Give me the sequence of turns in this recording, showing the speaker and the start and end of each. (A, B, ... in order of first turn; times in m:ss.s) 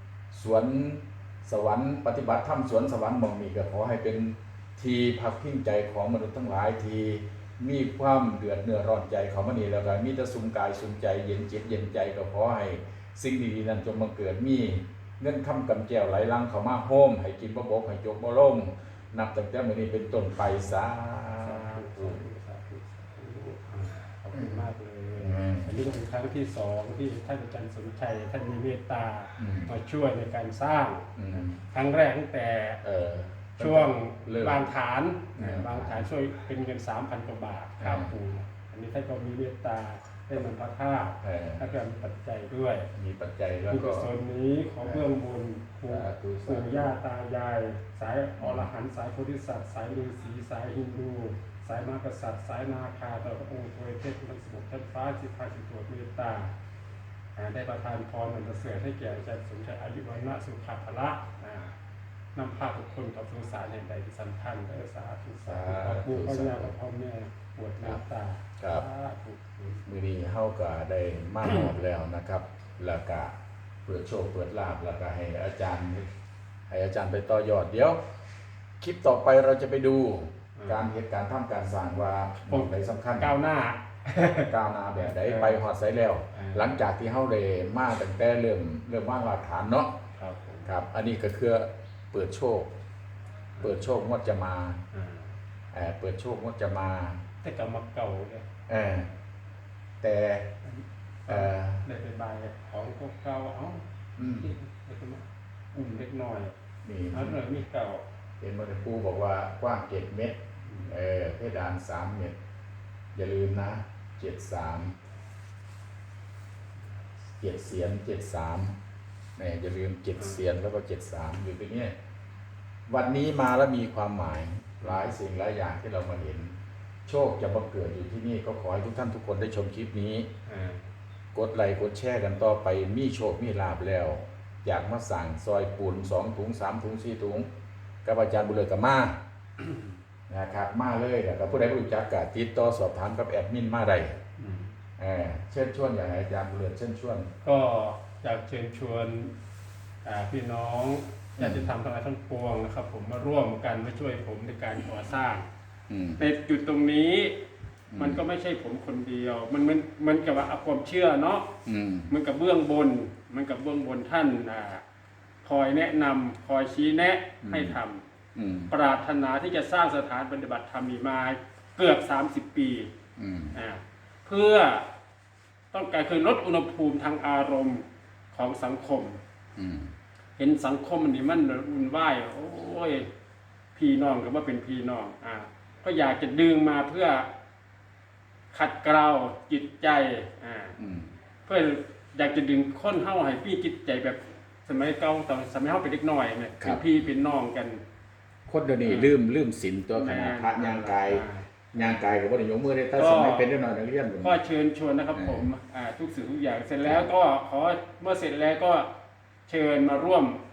0:00.3-0:22.2 A
0:21.4-0:32.8 B
0:24.3-0:24.6 A
0:25.2-0:25.8 A
0:29.4-0:29.7 A
0:31.2-0:31.6 A
0:32.8-0:34.7 A
0:33.6-0:42.9 B
0:35.3-0:36.0 A
0:37.8-0:38.1 A
0:41.2-0:41.6 A
0:42.9-0:44.1 A
0:43.7-0:56.5 B
0:44.8-0:45.1 A
0:45.9-0:46.9 A
0:48.4-0:48.7 A
0:57.4-1:01.7 B
1:02.3-1:09.8 B
1:05.4-1:06.7 A
1:08.6-1:08.8 A
1:09.8-1:13.3 A
1:13.8-1:16.1 A
1:16.7-1:18.0 A
1:18.8-1:23.3 A
1:20.6-1:20.9 B
1:22.5-1:25.6 B
1:24.5-1:29.9 A
1:26.3-1:26.8 B
1:30.2-1:30.7 B
1:30.6-1:32.7 A
1:33.6-1:34.8 A
1:34.9-1:35.3 B
1:35.7-1:37.2 A
1:37.4-1:38.5 B
1:38.7-1:39.1 A
1:40.0-1:40.5 A
1:40.6-1:43.8 B
1:41.3-1:41.8 A
1:44.2-1:44.5 A
1:44.4-1:46.5 B
1:46.8-1:47.5 A
1:47.1-1:48.0 B
1:48.4-1:52.4 A
1:50.7-1:51.0 B
1:53.1-1:55.0 A
1:57.4-1:58.8 A
1:59.4-2:01.9 A
2:00.2-2:00.4 B
2:02.8-2:06.5 A
2:04.8-2:05.1 B
2:07.0-2:10.3 A
2:10.5-2:10.8 B
2:11.3-2:17.5 A
2:18.0-2:19.2 A
2:19.6-2:19.9 B
2:20.3-2:24.2 A
2:24.4-2:24.7 B
2:25.0-2:27.3 A
2:27.4-2:29.3 B
2:30.0-2:35.4 B
2:31.4-2:31.7 A
2:35.9-2:36.2 A
2:36.2-2:37.4 B
2:37.9-2:38.2 A
2:38.0-2:41.5 B
2:41.6-2:42.1 A
2:42.1-2:44.8 B
2:45.4-2:48.0 B
2:47.4-2:47.8 A
2:48.3-2:48.7 A
2:48.7-2:52.9 B
2:53.2-2:53.6 A
2:53.5-2:54.9 B
2:55.7-2:59.2 B
2:59.6-2:59.9 A
3:00.4-3:03.1 B
3:03.7-3:07.3 B
3:08.5-3:10.8 B
3:10.8-3:11.1 A
3:11.4-3:17.8 B
3:16.6-3:16.9 A
3:18.5-3:24.4 A
3:18.8-3:19.1 B
3:19.9-3:21.9 B
3:23.0-3:23.5 B
3:24.2-3:28.9 B
3:25.1-3:25.5 A
3:29.5-3:30.4 B